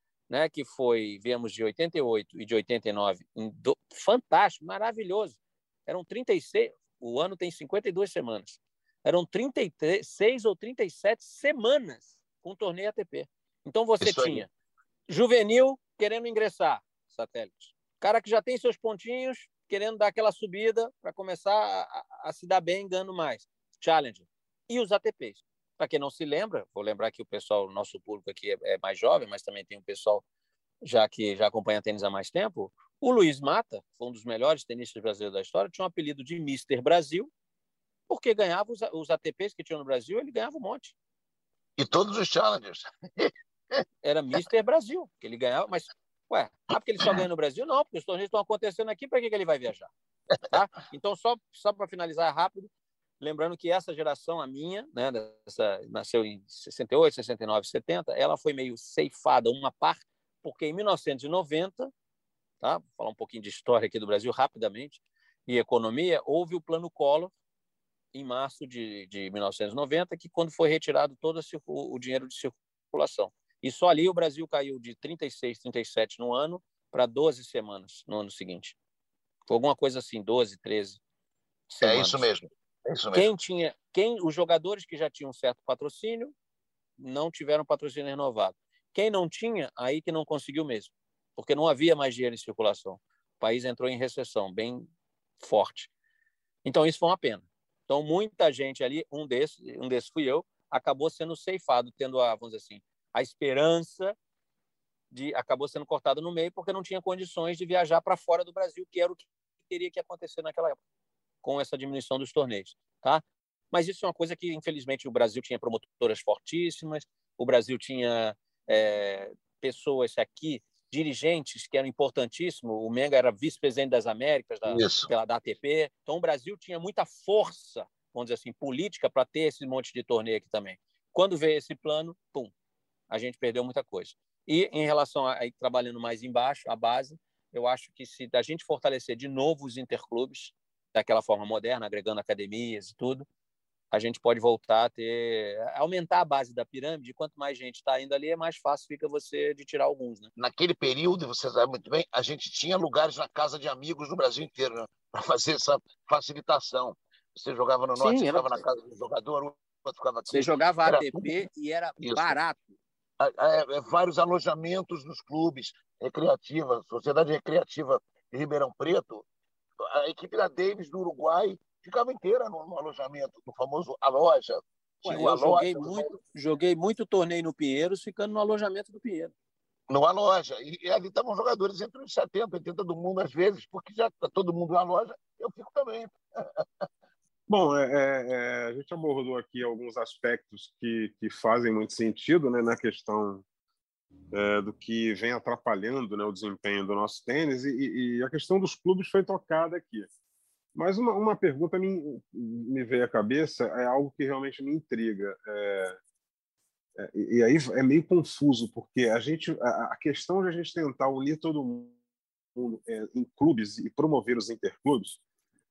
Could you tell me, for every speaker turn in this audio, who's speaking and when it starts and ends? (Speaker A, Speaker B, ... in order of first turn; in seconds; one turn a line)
Speaker A: 0.3-14.5
Speaker B: 14.0-14.4
Speaker A: 15.1-30.2
Speaker A: 30.8-37.3
Speaker A: 38.1-40.9
Speaker B: 41.8-43.8
Speaker A: 44.0-49.9
Speaker A: 50.5-61.9
Speaker A: 62.6-67.3
Speaker A: 68.1-78.8
Speaker A: 79.5-81.0
Speaker A: 81.7-82.3
Speaker B: 81.8-83.3
Speaker A: 83.1-86.3
Speaker A: 87.0-94.9
Speaker A: 95.4-95.9
Speaker A: 96.6-104.2
Speaker A: 105.1-110.8
Speaker A: 111.4-132.5
Speaker B: 124.7-125.1
Speaker A: 133.1-143.2
Speaker A: 143.9-150.3
Speaker B: 150.3-161.4
Speaker A: 157.9-158.6
Speaker A: 160.3-162.8
Speaker B: 162.0-162.4
Speaker B: 163.2-169.2
Speaker B: 169.9-176.2
Speaker A: 175.0-179.3
Speaker B: 179.9-186.6
Speaker C: 187.5-193.4
Speaker C: 194.3-200.1
Speaker C: 200.7-206.0
Speaker C: 207.0-211.9
Speaker C: 212.6-215.2